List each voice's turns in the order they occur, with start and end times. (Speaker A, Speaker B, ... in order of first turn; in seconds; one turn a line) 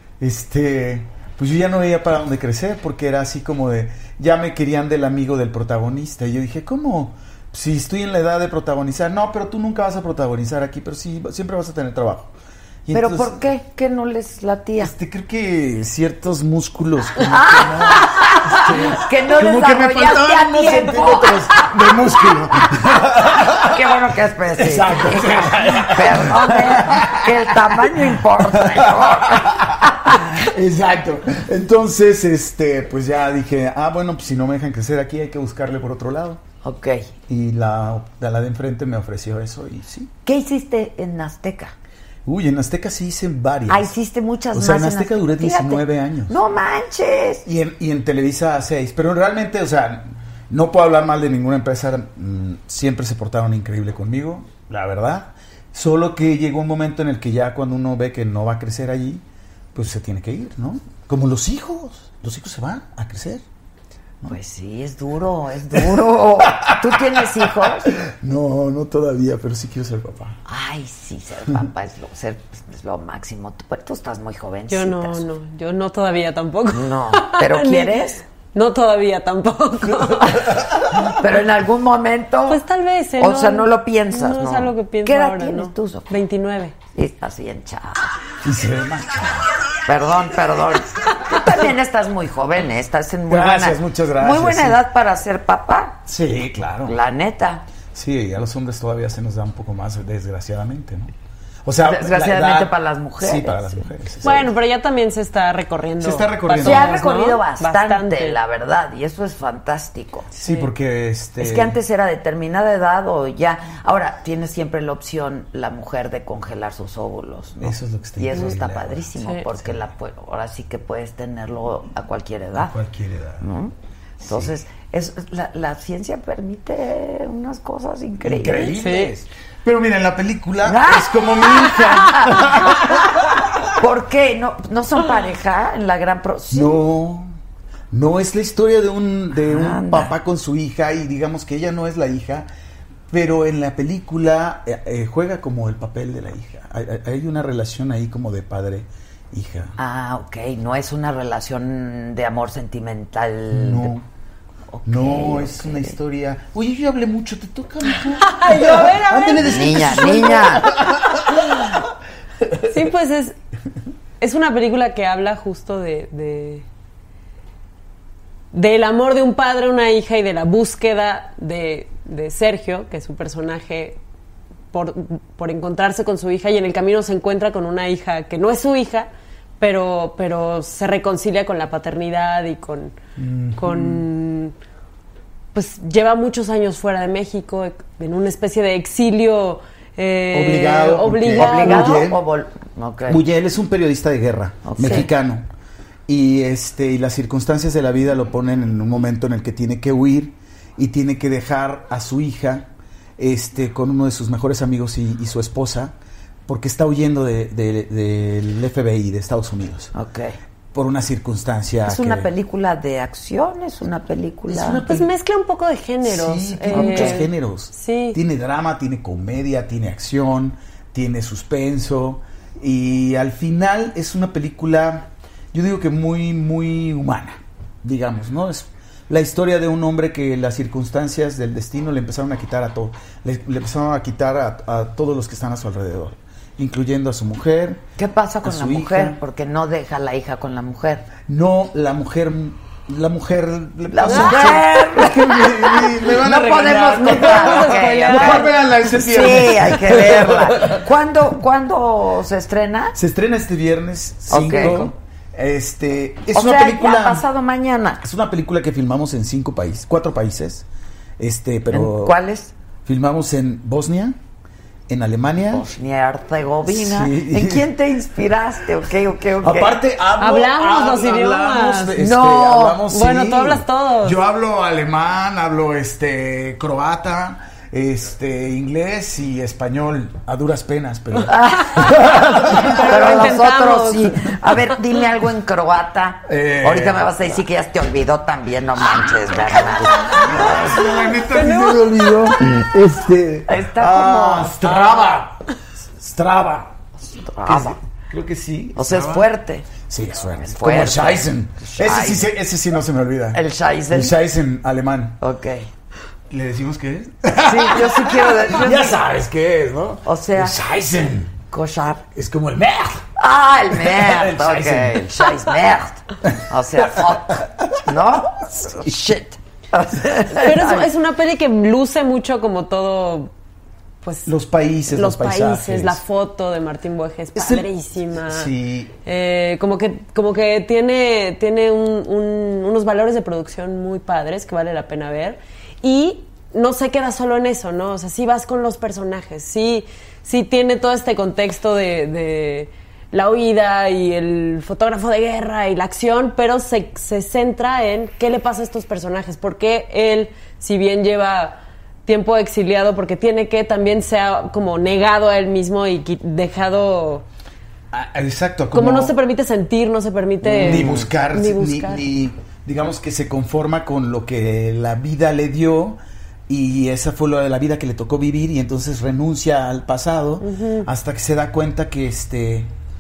Speaker A: 0.2-12.3
Speaker A: 12.9-13.4
Speaker B: 12.9-14.9
Speaker A: 14.8-23.9
Speaker B: 17.3-21.7
Speaker B: 23.3-30.2
Speaker A: 24.5-36.4
Speaker B: 36.6-37.1
Speaker A: 37.3-40.1
Speaker B: 40.2-41.8
Speaker A: 42.3-44.0
Speaker B: 43.7-47.5
Speaker A: 44.5-46.4
Speaker A: 47.5-59.2
Speaker A: 59.7-63.4
Speaker B: 64.3-68.0
Speaker A: 66.4-70.4
Speaker B: 70.5-75.3
Speaker C: 74.7-80.5
Speaker B: 76.7-78.2
Speaker B: 80.2-82.6
Speaker C: 82.5-86.8
Speaker B: 83.2-86.1
Speaker B: 86.9-88.1
Speaker A: 88.4-89.5
Speaker B: 89.9-96.0
Speaker A: 93.3-94.8
Speaker A: 96.1-97.0
Speaker B: 96.9-97.6
Speaker A: 97.9-101.1
Speaker A: 101.7-104.5
Speaker B: 101.8-103.8
Speaker C: 104.2-108.4
Speaker A: 106.0-107.0
Speaker B: 106.5-110.3
Speaker A: 110.4-111.8
Speaker C: 110.4-110.7
Speaker B: 111.4-122.8
Speaker A: 117.6-119.9
Speaker A: 122.6-123.5
Speaker B: 123.4-129.1
Speaker A: 124.2-124.5
Speaker A: 128.2-133.4
Speaker C: 128.8-129.1
Speaker B: 130.7-133.0
Speaker B: 133.8-136.8
Speaker A: 136.5-137.3
Speaker A: 137.9-142.5
Speaker B: 139.4-140.1
Speaker A: 143.1-149.8
Speaker B: 149.8-153.9
Speaker A: 153.5-154.1
Speaker B: 154.7-156.0
Speaker A: 154.9-161.7
Speaker C: 157.9-159.9
Speaker B: 159.4-160.7
Speaker C: 162.7-163.4
Speaker C: 164.2-166.7
Speaker C: 168.5-174.0
Speaker C: 174.7-179.1
Speaker C: 179.6-182.9
Speaker A: 183.2-184.1
Speaker C: 183.6-184.5
Speaker C: 185.5-192.1
Speaker A: 190.3-192.2
Speaker B: 191.3-193.2
Speaker A: 193.1-195.4
Speaker B: 194.7-195.1
Speaker A: 196.1-205.9
Speaker A: 206.5-209.9
Speaker B: 209.9-210.4
Speaker A: 210.7-212.3
Speaker B: 211.8-214.8
Speaker A: 214.5-215.1
Speaker C: 214.8-218.2
Speaker A: 216.0-237.8
Speaker B: 216.7-217.2
Speaker B: 238.0-241.1
Speaker A: 238.4-239.2
Speaker A: 241.2-250.9
Speaker B: 243.9-253.0
Speaker C: 247.0-248.5
Speaker A: 252.9-257.2
Speaker B: 254.3-254.9
Speaker B: 256.3-258.0
Speaker A: 258.0-260.6
Speaker A: 261.2-262.2
Speaker B: 261.7-262.5
Speaker A: 262.9-264.2
Speaker A: 264.9-265.7
Speaker B: 265.5-269.8
Speaker A: 266.7-267.7
Speaker A: 269.4-283.3
Speaker C: 270.2-272.0
Speaker B: 272.0-272.9
Speaker C: 272.9-274.2
Speaker B: 281.3-290.9
Speaker C: 282.5-284.1
Speaker A: 286.3-287.4
Speaker A: 289.7-295.4
Speaker C: 291.3-292.1
Speaker B: 293.5-294.8
Speaker A: 295.9-296.7
Speaker B: 297.2-297.8
Speaker A: 297.4-305.2
Speaker B: 298.8-299.7
Speaker B: 300.4-302.3
Speaker B: 303.3-304.1
Speaker B: 305.2-305.7
Speaker A: 306.3-311.4
Speaker B: 307.4-309.0
Speaker B: 310.0-310.6
Speaker B: 311.5-312.0
Speaker A: 312.1-313.0
Speaker B: 313.2-320.9
Speaker A: 313.7-315.1
Speaker A: 318.5-319.0
Speaker C: 320.3-323.3
Speaker C: 324.0-324.3
Speaker A: 324.3-326.0
Speaker C: 324.9-328.5
Speaker A: 327.4-328.9
Speaker C: 329.1-357.2
Speaker A: 357.9-359.1
Speaker C: 358.7-362.1
Speaker A: 360.4-372.7
Speaker B: 360.5-361.0
Speaker C: 370.4-370.9